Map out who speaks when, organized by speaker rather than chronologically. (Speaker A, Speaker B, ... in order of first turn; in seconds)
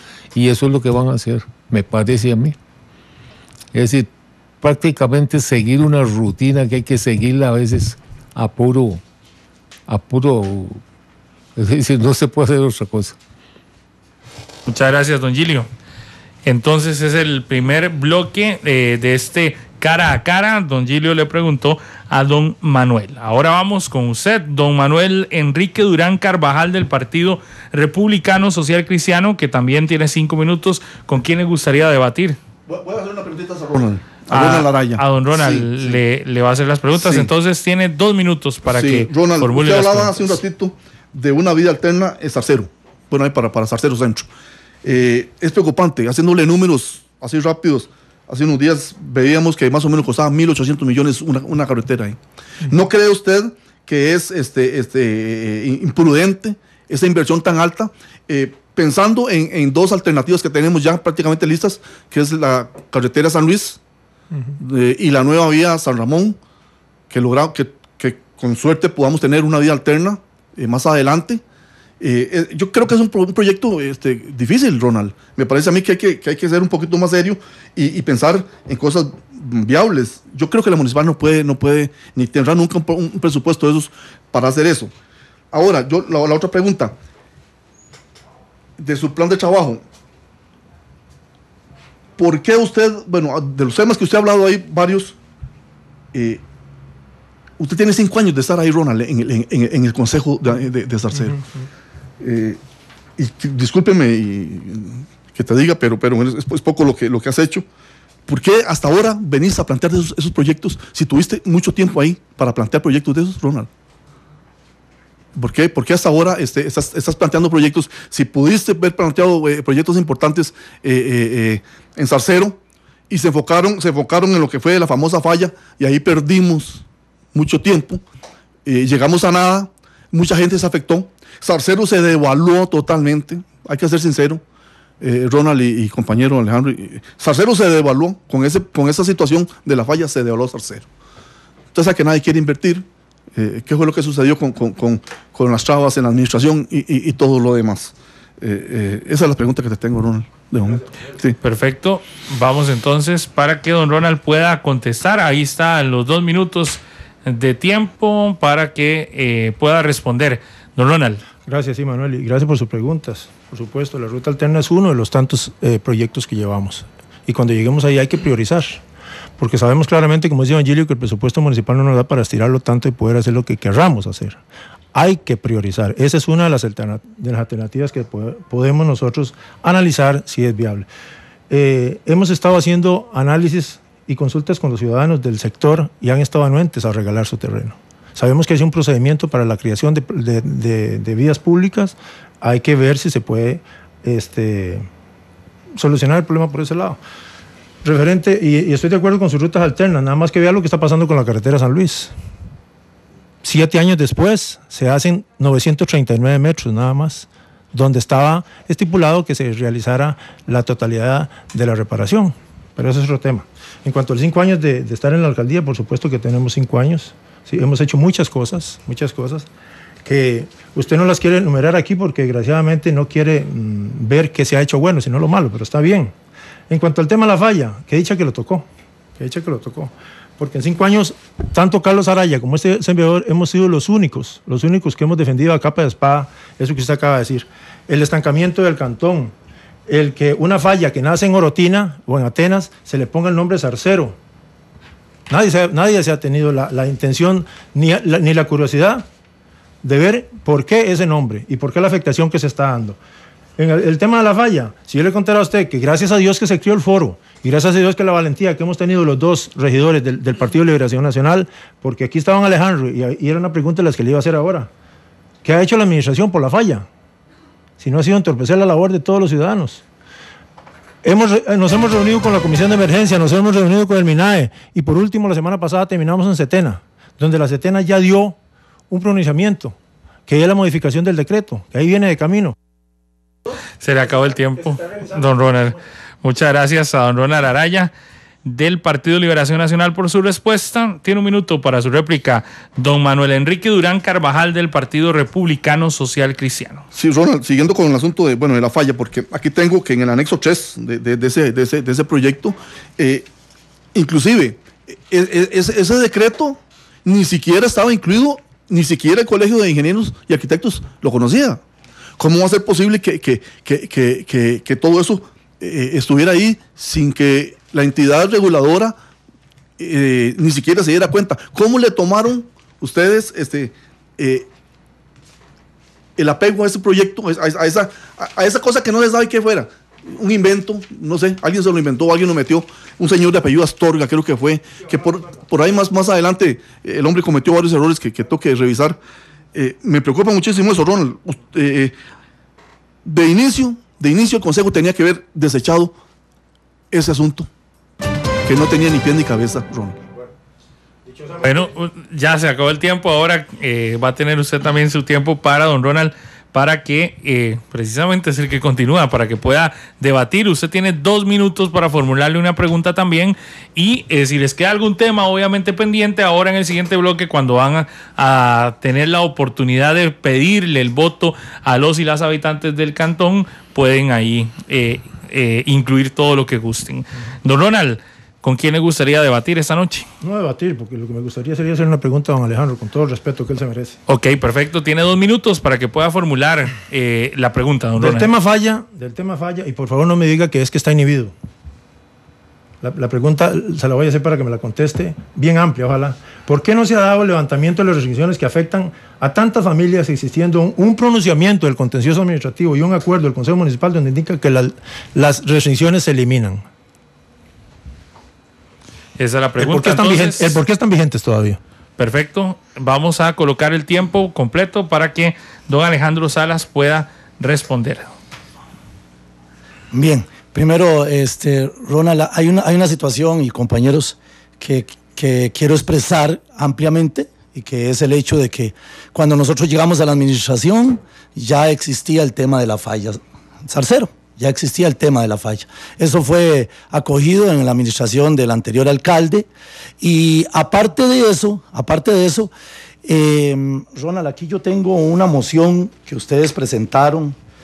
Speaker A: 0.3-2.6, 3.7-4.1, 4.6-9.0, 9.9-10.8, 11.6-13.2
Speaker B: 14.7-15.7, 16.4-32.4, 34.3-40.4, 151.4-161.2, 283.8-287.9, 288.4-296.9, 351.4-380.1, 384.1-388.3, 409.2-410.6, 412.0-418.0
Speaker C: 32.7-36.0, 36.9-37.3, 38.7-44.3, 44.8-63.8, 64.6-66.4, 67.1-71.4, 72.0-84.9, 85.5-87.0, 88.8-89.8, 92.2-95.2, 96.1-96.4, 97.6-101.4, 102.2-102.6, 103.2-107.7, 108.3-113.7, 115.3-122.6, 123.1-128.0, 128.7-134.4, 135.0-140.8, 141.7-142.8, 143.4-151.4, 296.9-303.3, 303.9-311.6, 312.2-319.0, 319.8-324.5, 326.2-339.0, 339.5-341.9, 343.1-346.0, 346.9-347.5, 348.4-350.0
Speaker D: 101.2-101.7, 161.4-168.8, 169.4-174.4, 174.9-180.9, 181.5-194.9, 195.8-197.0, 197.8-202.1, 203.4-219.5, 220.0-226.1, 226.7-228.7, 229.2-239.3, 239.9-244.2, 245.3-249.1, 249.8-253.0, 253.6-264.7, 265.4-266.9, 267.8-269.8, 271.0-278.4, 278.9-279.8, 280.3-282.6, 351.1-351.4, 380.2-384.0, 388.0-391.3, 392.8-406.6, 409.6-411.6
Speaker E: 419.9-439.5, 440.0-442.5, 443.0-447.4